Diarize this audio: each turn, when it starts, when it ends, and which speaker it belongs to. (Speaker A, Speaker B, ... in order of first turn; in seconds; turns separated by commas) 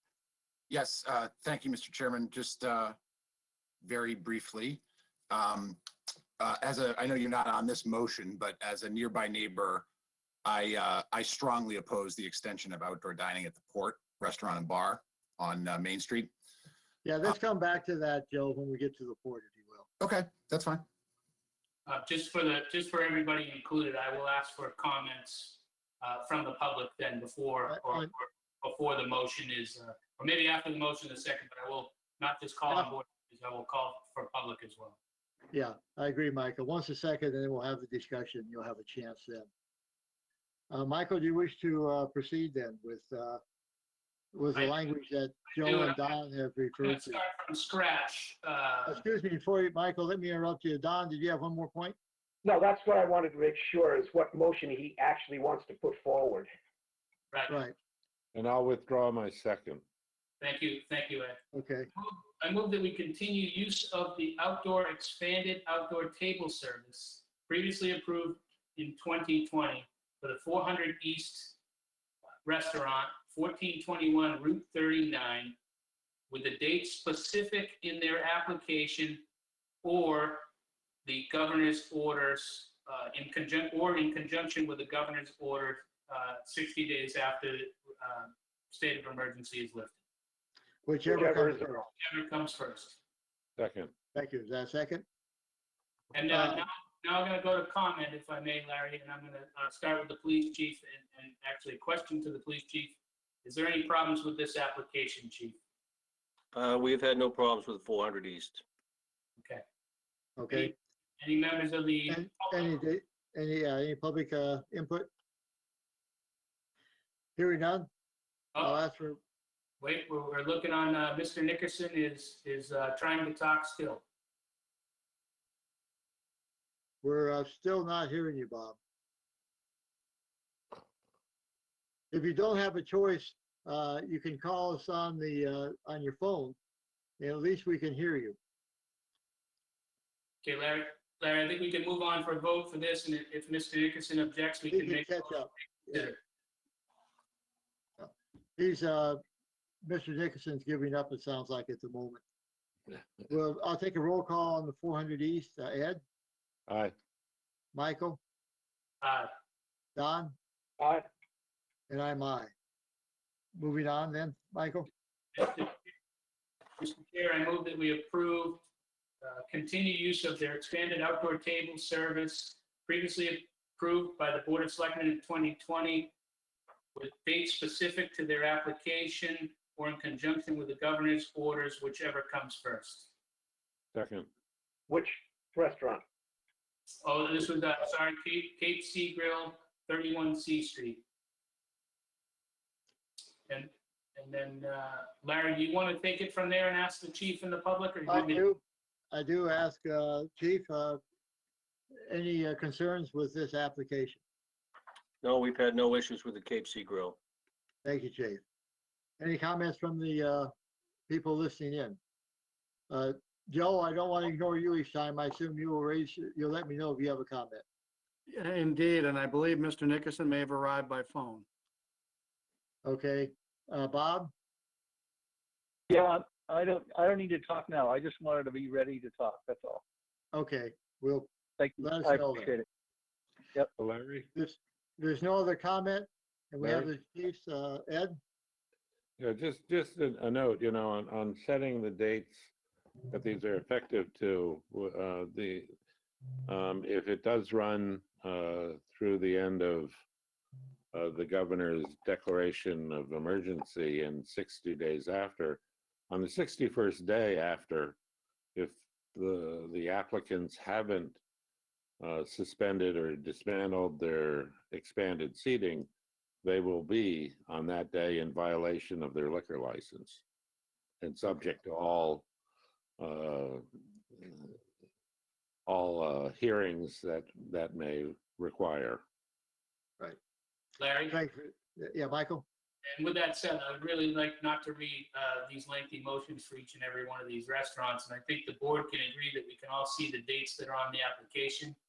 Speaker A: 0.7-3.0, Speaker A: 3.8-5.8, Speaker A: 6.4-9.9, Speaker A: 10.4-16.3, Speaker B: 17.1-19.9, Speaker A: 20.0-20.9, Speaker C: 21.9-35.0, Speaker B: 27.7-28.1, Speaker B: 35.5-39.5, Speaker B: 40.7-43.4, Speaker B: 44.3-47.2, Speaker C: 44.5-45.0, Speaker C: 45.5-46.2, Speaker C: 46.8-49.0, Speaker B: 48.9-52.0, Speaker D: 52.4-56.5, Speaker C: 57.3-57.6, Speaker B: 57.5-57.7, Speaker E: 58.3-59.8, Speaker C: 60.4-71.6, Speaker B: 61.5-61.9, Speaker C: 72.5-75.6, Speaker C: 76.3-79.2, Speaker C: 79.8-80.5, Speaker C: 81.0-90.0, Speaker B: 90.9-91.6, Speaker D: 91.1-91.9, Speaker C: 92.0-93.0, Speaker E: 93.6-93.9, Speaker B: 94.1-95.0, Speaker C: 96.1-105.6, Speaker B: 96.3-96.6, Speaker F: 106.5-108.6, Speaker C: 109.4-109.6, Speaker B: 110.4-110.7, Speaker C: 110.5-112.8, Speaker B: 112.1-115.1, Speaker B: 117.4-117.9, Speaker B: 118.6-119.2, Speaker C: 119.8-124.0, Speaker B: 127.0-128.8, Speaker B: 132.1-136.6, Speaker B: 137.2-138.4, Speaker C: 140.4-146.2, Speaker B: 144.7-146.1, Speaker B: 148.0-149.2, Speaker B: 149.8-152.2, Speaker B: 153.3-156.0, Speaker E: 156.7-156.9, Speaker B: 157.7-158.2, Speaker C: 159.0-159.3, Speaker B: 160.0-160.4, Speaker D: 160.8-161.1, Speaker B: 161.9-162.5, Speaker B: 163.6-164.9, Speaker C: 165.3-165.8, Speaker C: 166.8-168.6, Speaker C: 169.2-176.1, Speaker C: 176.9-183.1, Speaker E: 183.9-184.3, Speaker D: 184.9-186.0, Speaker C: 187.0-191.0, Speaker C: 193.5-198.4, Speaker B: 198.1-198.6, Speaker B: 199.1-201.0, Speaker B: 202.1-204.2, Speaker F: 205.2-207.2, Speaker B: 207.8-208.4, Speaker B: 209.2-210.5, Speaker B: 211.1-212.0, Speaker B: 212.9-217.7, Speaker G: 218.3-221.4, Speaker B: 222.8-224.3, Speaker H: 225.9-229.8, Speaker B: 230.3-231.3, Speaker H: 231.6-232.7, Speaker B: 231.8-232.5, Speaker E: 233.8-234.3, Speaker B: 234.3-238.2, Speaker E: 239.2-242.5, Speaker E: 243.1-245.7, Speaker E: 246.5-249.9, Speaker E: 250.9-258.0, Speaker E: 258.6-261.2, Speaker E: 262.0-265.9, Speaker E: 266.4-270.2, Speaker E: 271.0-272.3, Speaker E: 273.0-274.6, Speaker E: 275.7-279.0, Speaker C: 280.8-281.2, Speaker B: 281.1-282.4, Speaker C: 282.9-291.8